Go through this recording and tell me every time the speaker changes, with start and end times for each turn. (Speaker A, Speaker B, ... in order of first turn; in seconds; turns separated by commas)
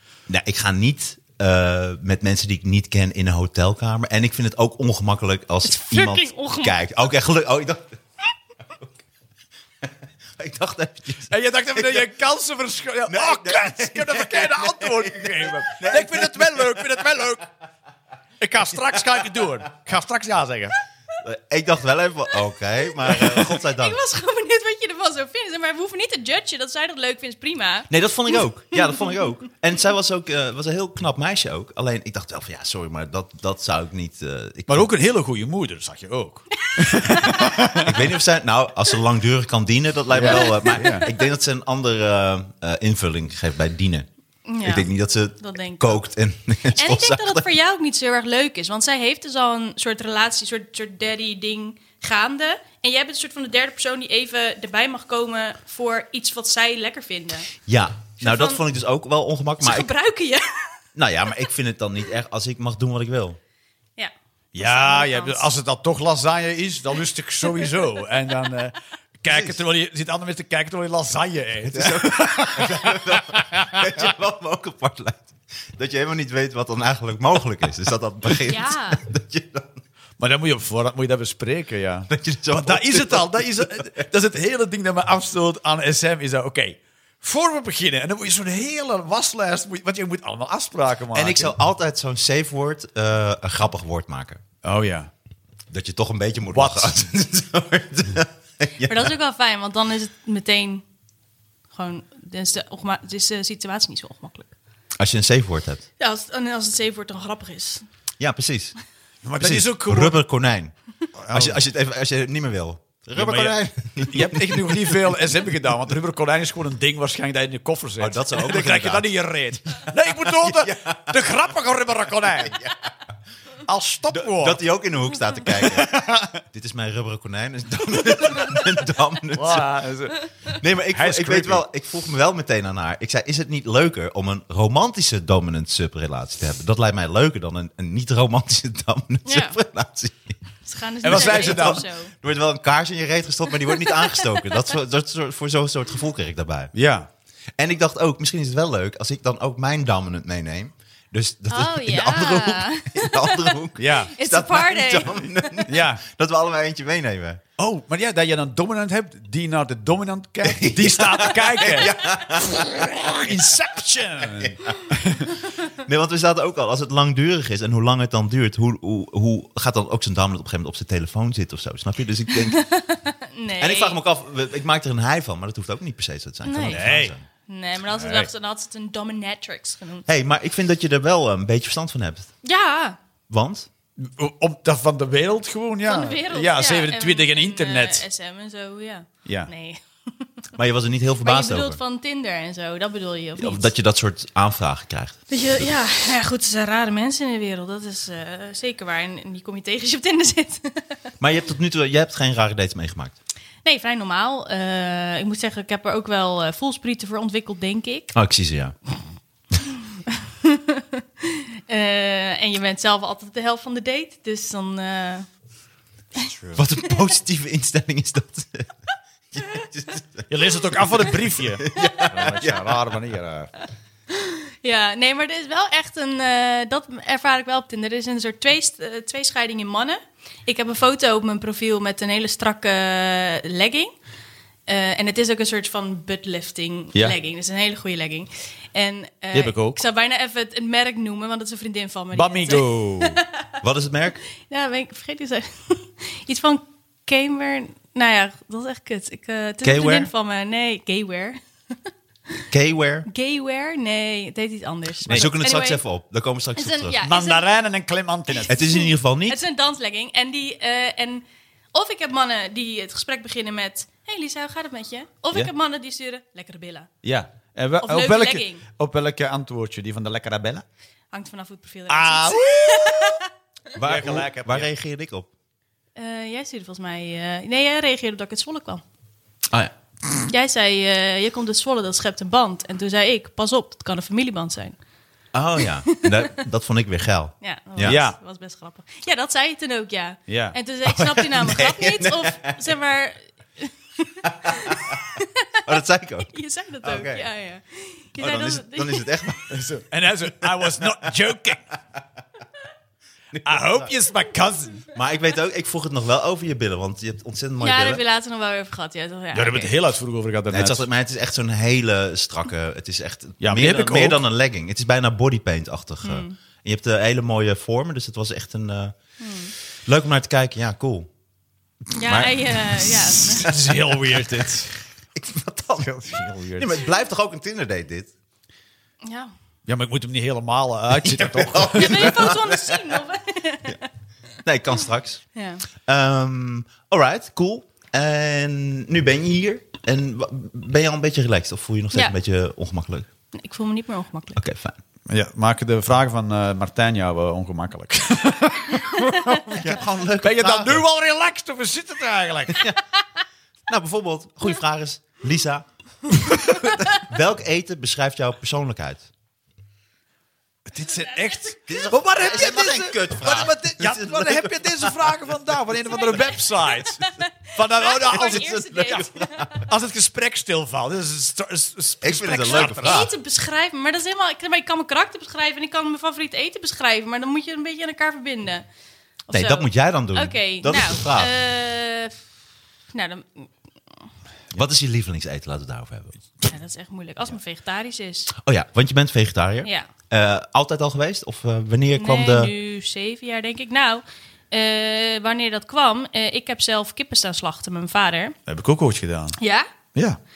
Speaker A: 0.3-8.0, Speaker B: 5.6-6.8, Speaker A: 9.8-12.1, Speaker C: 11.3-17.4, Speaker A: 13.1-17.0, Speaker C: 18.4-20.8, Speaker A: 21.2-24.0, Speaker B: 23.1-29.2, Speaker A: 27.9-34.9, Speaker C: 34.7-38.0, Speaker B: 36.6-37.6, Speaker A: 37.8-44.1, Speaker C: 40.1-41.1, Speaker B: 40.2-41.2, Speaker B: 44.5-46.0, Speaker A: 44.6-47.5, Speaker B: 46.7-57.5, Speaker A: 57.7-59.9, Speaker B: 58.2-58.6, Speaker B: 59.6-60.8, Speaker A: 61.0-63.4, Speaker B: 64.0-65.5, Speaker C: 64.5-74.1, Speaker B: 67.5-67.8, Speaker A: 69.3-69.6, Speaker A: 71.7-79.8, Speaker B: 78.5-79.0, Speaker C: 80.2-91.5, Speaker A: 82.1-83.9, Speaker A: 91.1-94.4, Speaker C: 94.6-95.1, Speaker A: 95.7-99.1, Speaker C: 96.5-97.0, Speaker B: 98.8-100.8, Speaker B: 101.7-104.5, Speaker A: 105.0-105.8, Speaker B: 106.0-107.8, Speaker A: 108.2-108.8, Speaker C: 109.2-110.2, Speaker A: 109.4-110.7, Speaker C: 111.2-111.6, Speaker A: 111.3-115.0, Speaker C: 113.2-122.6, Speaker A: 118.0-119.1, Speaker A: 120.4-121.2, Speaker A: 122.4-122.9, Speaker C: 123.7-124.6, Speaker A: 124.1-129.7, Speaker C: 125.5-126.4, Speaker C: 129.3-130.3, Speaker A: 130.5-140.4, Speaker C: 130.9-131.6, Speaker B: 139.3-139.6, Speaker B: 140.6-142.1, Speaker C: 141.0-141.8, Speaker A: 141.1-146.7, Speaker B: 143.8-144.4, Speaker C: 146.7-147.1, Speaker A: 147.6-157.4, Speaker B: 151.5-153.6, Speaker C: 153.8-154.2, Speaker B: 154.1-155.6, Speaker C: 155.7-156.0, Speaker C: 157.6-165.3, Speaker A: 160.4-163.3, Speaker A: 164.4-164.8, Speaker A: 165.7-172.6, Speaker B: 172.4-174.0, Speaker A: 173.6-177.2, Speaker B: 176.4-176.8, Speaker C: 176.7-177.2, Speaker B: 177.5-180.1, Speaker C: 177.9-178.3, Speaker A: 180.1-182.3, Speaker B: 182.4-183.0, Speaker A: 183.3-183.7, Speaker C: 184.0-188.0, Speaker B: 185.9-190.3, Speaker A: 190.6-191.8, Speaker B: 191.2-193.7, Speaker A: 193.4-195.7, Speaker B: 195.3-201.0, Speaker A: 201.2-203.2, Speaker B: 203.6-208.2, Speaker A: 208.1-208.8, Speaker B: 210.4-215.3, Speaker C: 216.2-216.6, Speaker A: 216.6-218.7, Speaker A: 219.3-222.8, Speaker C: 220.3-223.5, Speaker B: 221.7-222.3, Speaker B: 224.1-233.9, Speaker B: 234.7-243.2, Speaker C: 239.3-239.8, Speaker C: 242.1-243.2, Speaker A: 243.6-244.2, Speaker B: 244.3-251.4, Speaker A: 249.6-250.1, Speaker A: 252.5-253.1, Speaker B: 253.1-255.8, Speaker A: 255.1-257.0, Speaker B: 256.6-257.5, Speaker C: 257.0-258.6, Speaker B: 258.3-266.9, Speaker A: 258.5-259.4, Speaker C: 267.0-270.6, Speaker B: 267.8-268.6, Speaker B: 271.1-273.3, Speaker C: 271.9-273.2, Speaker C: 273.8-274.7, Speaker A: 273.8-275.3, Speaker B: 276.0-278.8, Speaker B: 280.3-284.8, Speaker A: 285.3-288.0, Speaker B: 285.9-286.3, Speaker B: 287.4-295.7, Speaker C: 287.8-288.2, Speaker C: 290.3-290.6, Speaker A: 290.9-292.6, Speaker A: 294.4-295.0, Speaker A: 295.6-297.3, Speaker B: 296.3-299.4, Speaker A: 298.2-299.6, Speaker C: 299.5-301.7, Speaker A: 300.6-300.9, Speaker A: 303.3-303.9, Speaker C: 303.4-304.9, Speaker A: 304.9-308.0, Speaker B: 307.6-309.7, Speaker C: 309.3-310.8, Speaker A: 310.5-318.9, Speaker C: 313.4-314.2, Speaker B: 316.0-316.4, Speaker B: 319.2-319.5, Speaker A: 319.9-321.1, Speaker B: 322.0-323.5, Speaker A: 322.0-322.6, Speaker C: 323.4-324.8, Speaker A: 323.4-324.5, Speaker A: 325.1-328.1, Speaker C: 325.8-326.8, Speaker B: 329.0-329.3, Speaker C: 329.7-332.3, Speaker A: 330.9-333.0, Speaker B: 331.7-333.9, Speaker A: 334.4-335.2, Speaker B: 335.4-335.6, Speaker A: 335.8-343.1, Speaker B: 343.3-344.4, Speaker A: 344.4-344.8, Speaker C: 345.1-352.7, Speaker A: 349.5-350.8, Speaker A: 353.7-359.1, Speaker B: 356.6-356.9, Speaker C: 360.7-368.5, Speaker B: 361.0-362.0, Speaker A: 361.7-365.1, Speaker B: 365.9-369.6, Speaker A: 368.0-369.7, Speaker C: 369.7-373.1, Speaker A: 372.0-373.1, Speaker B: 372.5-378.6, Speaker B: 379.3-382.2, Speaker A: 379.3-381.3, Speaker B: 382.9-383.5, Speaker A: 384.5-386.2, Speaker B: 386.4-388.3, Speaker A: 388.3-392.5, Speaker B: 389.6-389.9, Speaker B: 391.9-398.4, Speaker C: 398.5-399.4, Speaker B: 399.4-399.7